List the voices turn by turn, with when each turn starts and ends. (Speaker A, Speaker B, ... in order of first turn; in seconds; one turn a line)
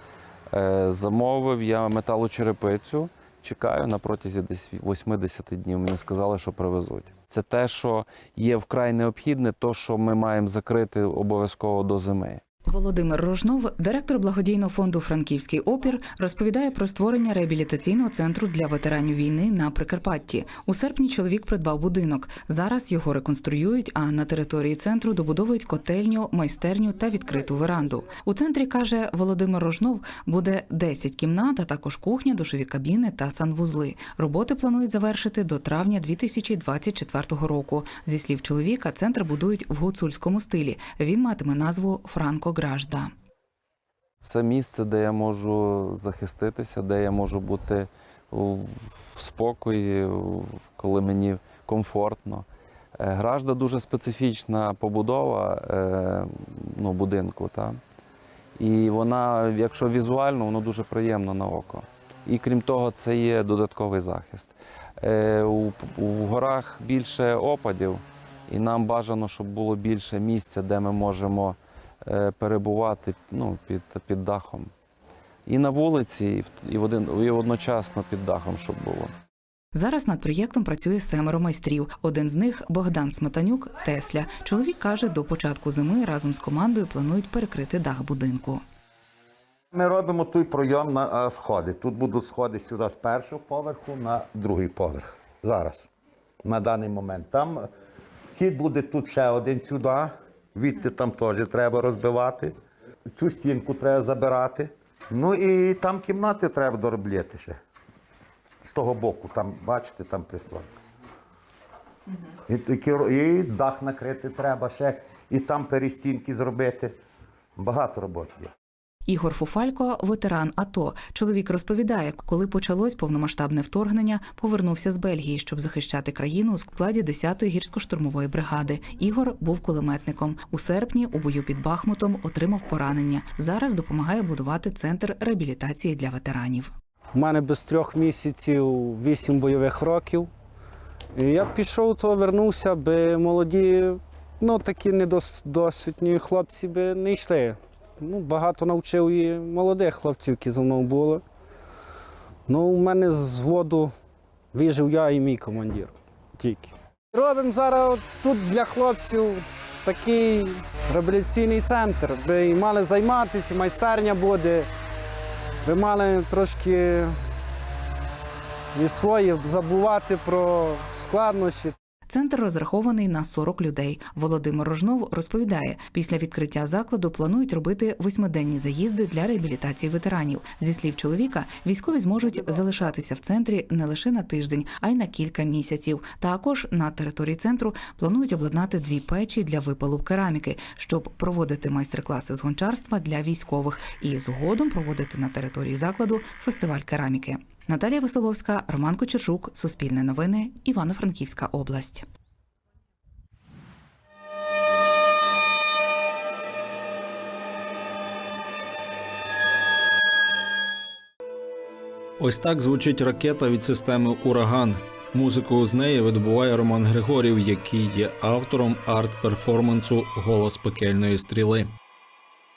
Speaker A: 0.5-12.4
Speaker B: 12.7-43.1
Speaker A: 44.2-52.5
Speaker A: 53.0-57.8
Speaker A: 58.6-74.7
Speaker A: 75.5-79.1
Speaker B: 79.7-88.6
Speaker C: 89.7-95.9
Speaker C: 96.4-97.6
Speaker C: 98.3-102.5
Speaker C: 103.2-107.5
Speaker C: 108.6-110.7
Speaker C: 112.5-116.9
Speaker C: 117.6-118.5
Speaker B: 119.1-136.7
Speaker D: 137.1-140.3
Speaker D: 141.1-151.2
Speaker D: 152.5-153.9
Speaker D: 154.5-164.7
Speaker D: 165.6-167.1
Speaker D: 168.7-171.7
Speaker B: 172.1-202.1
Speaker E: 212.2-221.7